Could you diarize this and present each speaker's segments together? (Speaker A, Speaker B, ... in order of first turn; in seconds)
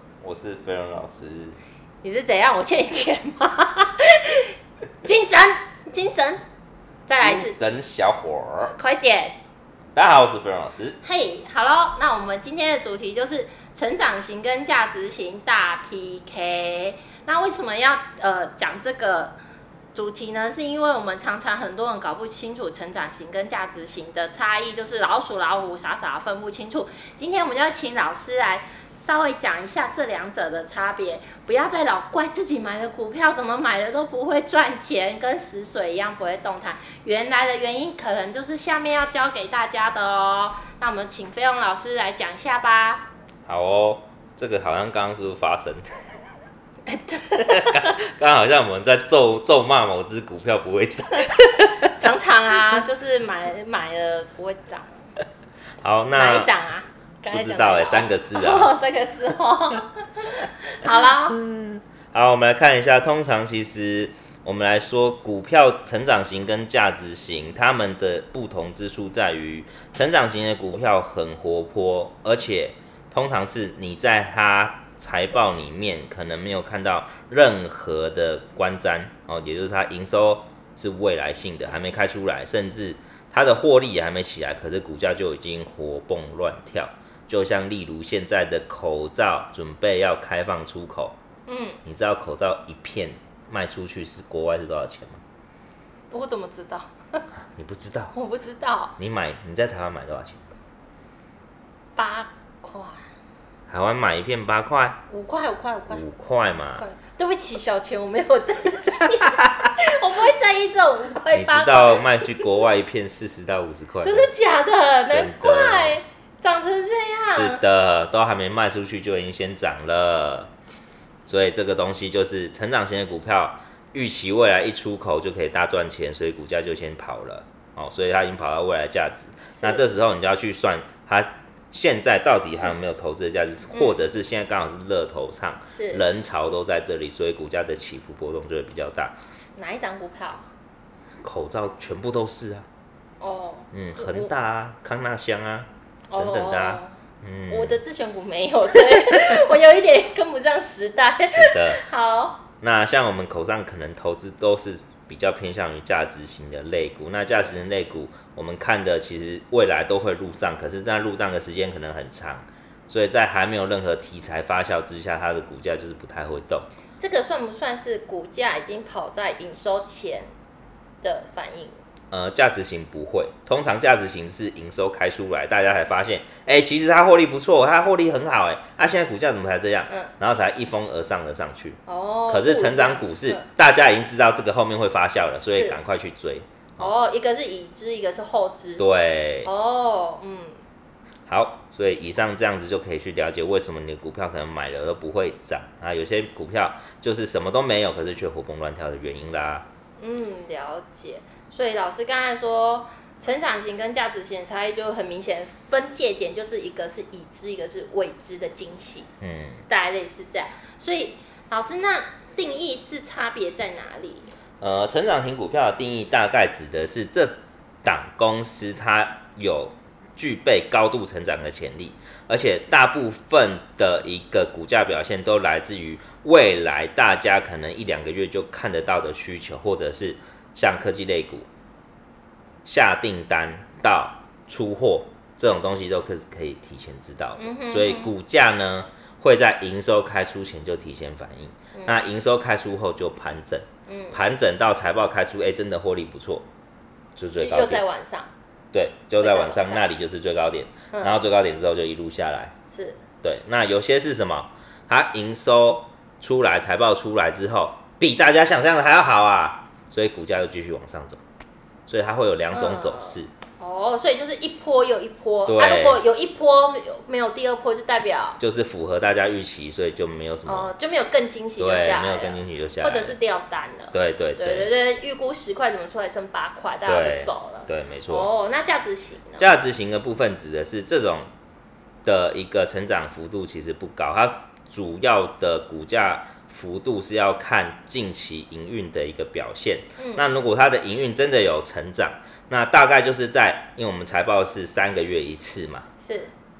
Speaker A: 0.2-1.6, 7.2-8.7, 9.9-11.0, 43.5-45.8, 47.4-52.0, 55.8-56.5, 57.3-58.7, 60.8-91.2, 91.8-95.2, 97.4-98.1, 99.0-100.4, 103.7-105.0, 105.9-106.8, 111.3-114.3, 115.0-116.0, 117.2-120.5, 121.3-139.2, 141.2-142.7, 143.7-147.8, 151.2-151.8, 152.6-166.7, 172.1-186.9, 188.8-189.5, 191.3-199.7, 209.2-209.6, 214.6-231.5, 232.6-246.5, 247.2-247.8, 248.7-252.5, 253.2-261.2, 261.9-263.3, 265.5-266.0, 268.4-270.7, 271.6-273.1, 273.9-274.7, 276.9-278.3, 279.4-281.3, 282.0-295.9
Speaker B: 2.0-6.4, 7.1-7.6, 8.6-9.4, 11.0-19.3, 19.9-43.0, 46.9-48.0, 51.8-55.0, 56.1-61.4, 91.5-91.8, 96.1-97.2, 98.1-98.9, 102.0-103.0, 105.1-106.0, 106.8-112.5, 114.0-117.6, 133.7-134.0, 135.7-136.1, 139.6-140.5, 143.2-144.3, 146.1-146.9, 147.5-152.4, 167.0-170.3, 171.0-171.8, 181.9-183.4, 185.5-185.8, 186.8-188.8, 189.4-190.6, 200.0-209.1, 209.7-214.3, 237.4-238.1, 243.9-244.2, 247.4-248.3, 249.2-249.8, 250.9-251.2, 252.7-253.0, 262.5-268.4, 270.4-279.5, 290.0-290.3, 296.0-296.3